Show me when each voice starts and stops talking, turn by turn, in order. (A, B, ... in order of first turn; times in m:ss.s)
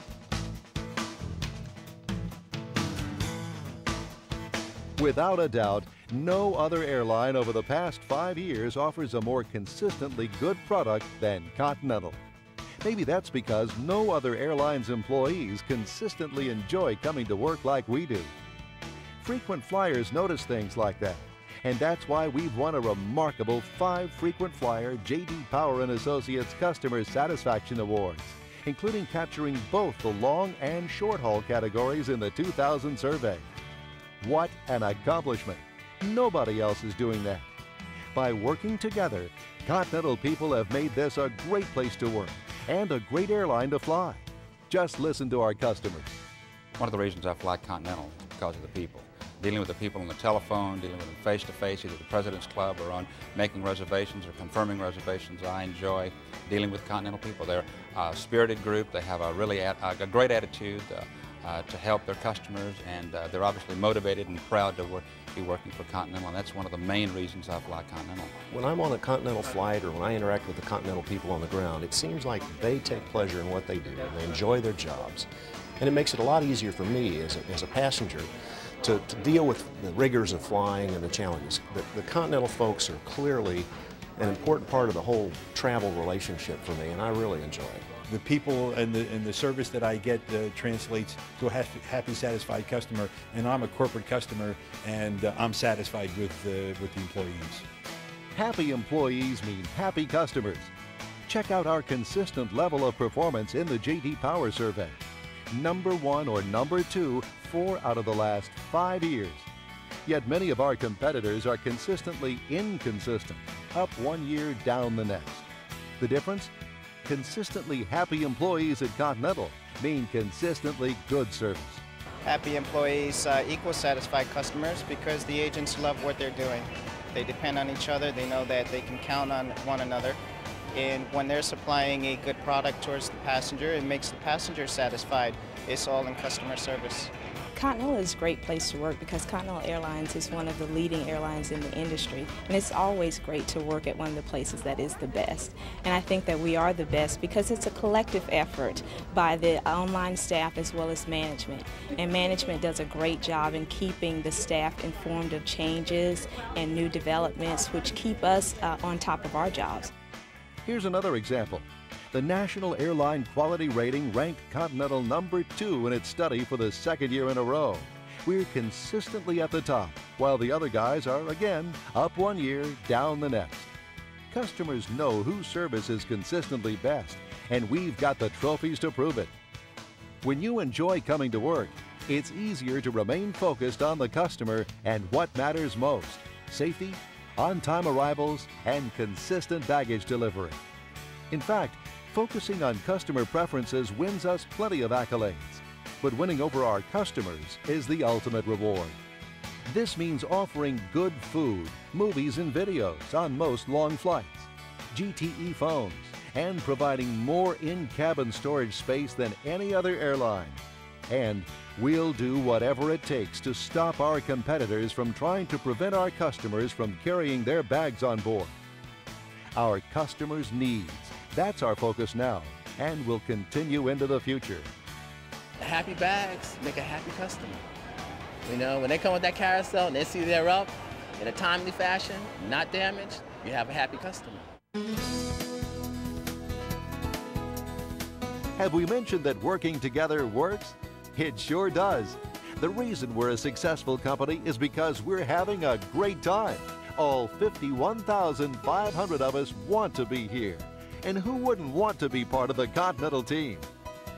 0:05.0-0:12.2 A
0:12.8-0:18.3 A
0:19.2-0:33.4 A
0:34.2-0:37.5 A
0:38.1-0:46.1 A
0:46.8-1:08.3 B
1:08.5-1:15.3 C
1:15.8-1:18.3 C
1:18.8-1:28.0 C
1:28.1-1:37.6 D
1:38.3-1:40.7 A
1:41.3-1:45.0 A
1:45.5-1:49.5 A
1:50.0-1:55.5 A
1:56.0-1:56.5 A
1:57.0-2:01.8 A
2:02.2-2:10.2 E
2:10.7-2:17.1 E
2:17.6-2:39.9 F
2:40.6-2:53.7 A
2:54.3-2:59.3 A
3:00.2-3:10.6 A
3:11.3-3:19.0 A
3:19.7-3:38.5 A
3:39.6-3:44.7 A
3:45.6-3:47.6 G
3:48.4-3:54.4 G
3:58.6-4:13.7 A